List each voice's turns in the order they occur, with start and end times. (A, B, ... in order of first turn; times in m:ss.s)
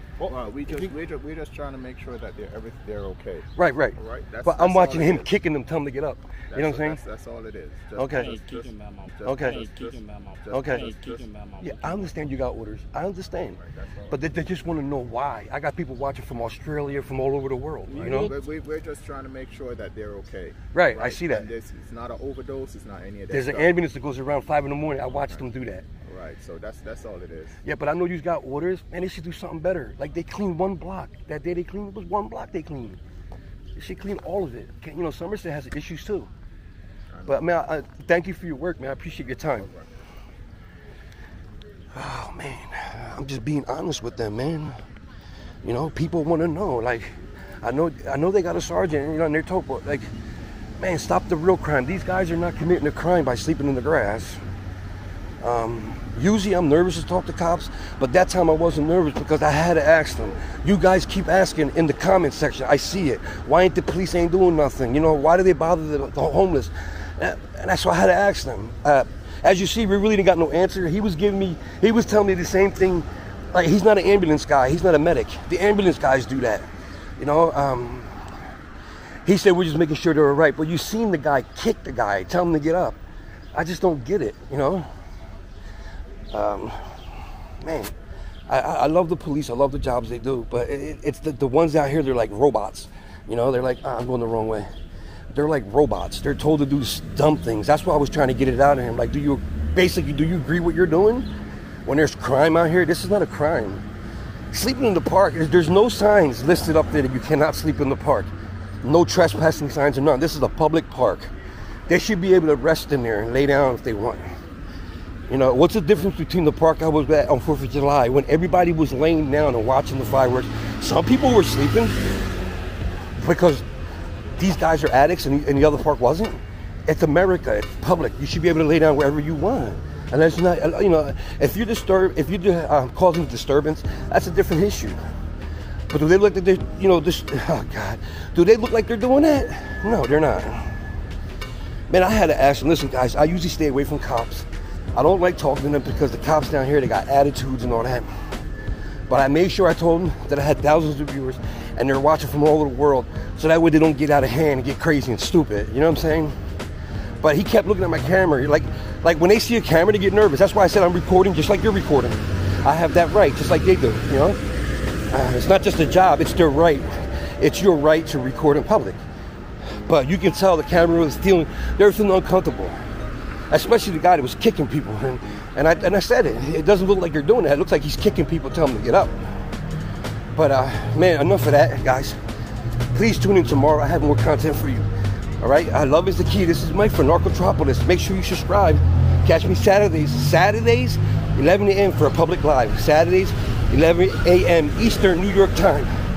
0:00.2-0:05.3 A
0:03.6-0:07.0 B
0:06.5-0:11.2 A
0:08.0-0:08.3 B
0:08.1-0:12.1 C
0:09.2-0:09.6 B
0:10.5-0:10.9 B
0:11.6-0:13.6 B
0:13.6-0:14.2 A
0:14.1-0:18.3 B
0:17.9-0:18.4 C
0:18.0-0:23.8 A
0:20.7-0:21.5 B
0:23.3-0:25.8 B
0:25.1-0:25.4 A
0:26.0-0:27.6 A
0:27.6-0:33.0 B
0:33.8-0:36.3 B
0:37.1-0:37.4 A
0:37.3-0:39.7 B
0:41.9-0:44.7 B
0:45.6-0:50.1 B
0:50.8-0:54.4 B
0:55.4-1:18.3 B
1:19.2-1:23.0 B
1:23.5-1:24.9 B
1:26.3-1:27.9 B
1:28.5-1:34.7 B
1:35.3-1:41.3 B
1:41.8-1:43.8 B
1:44.5-1:48.3 B
1:48.8-1:51.3 B
1:51.9-1:54.3 B
1:55.3-2:02.0 B
2:03.2-2:03.6 B
2:04.4-2:15.0 B
2:15.9-2:20.8 B
2:21.9-2:28.1 B
2:29.1-2:36.4 B
2:37.2-2:44.4 B
2:45.1-2:49.0 B
2:49.7-2:52.8 B
2:53.5-2:59.4 B
3:00.3-3:02.2 B
3:02.9-3:15.9 B